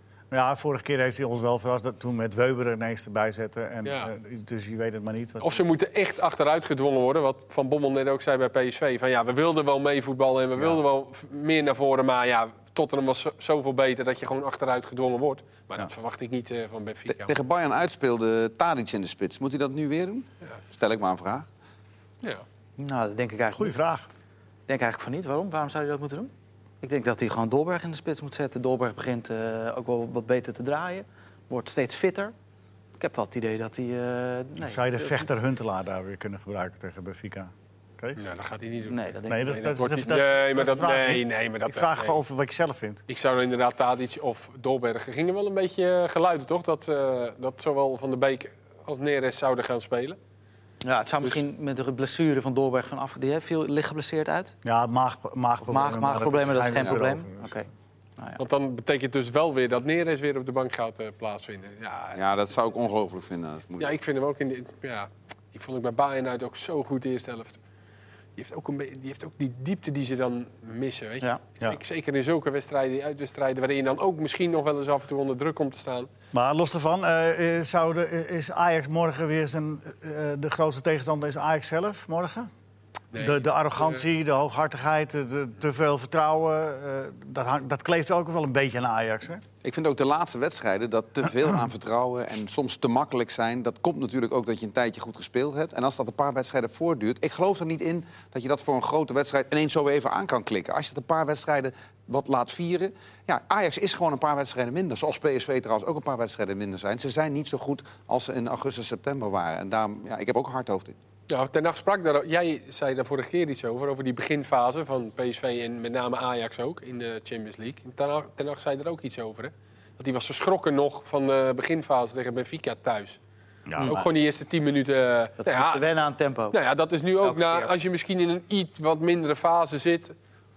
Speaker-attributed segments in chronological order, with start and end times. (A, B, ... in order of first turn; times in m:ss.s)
0:00.3-0:05.6 A
0:03.8-0:04.1 B
0:05.4-0:17.3 B
0:17.1-0:21.5 C
0:22.8-0:23.8 D
0:23.5-0:24.1 A
0:24.7-0:32.3 D
0:33.0-0:35.2 D
0:34.6-0:38.2 A
0:38.2-0:42.2 B
0:38.9-0:39.7 D
0:39.3-0:43.0 A
0:43.1-0:50.2 B
0:50.8-0:54.5 D
0:54.6-0:57.6 A
0:55.6-0:58.4 D
0:58.4-1:02.2 B
1:02.1-1:03.9 C
1:03.8-1:07.6 B
1:08.4-1:16.1 B
1:16.3-1:22.5 A
1:23.1-1:24.0 B
1:23.1-1:29.4 A
1:29.6-1:51.0 C
1:51.3-2:03.2 B
2:03.7-2:04.1 A
2:03.8-2:05.9 B
2:05.4-2:06.6 D
2:06.5-2:10.1 B
2:07.2-2:07.7 D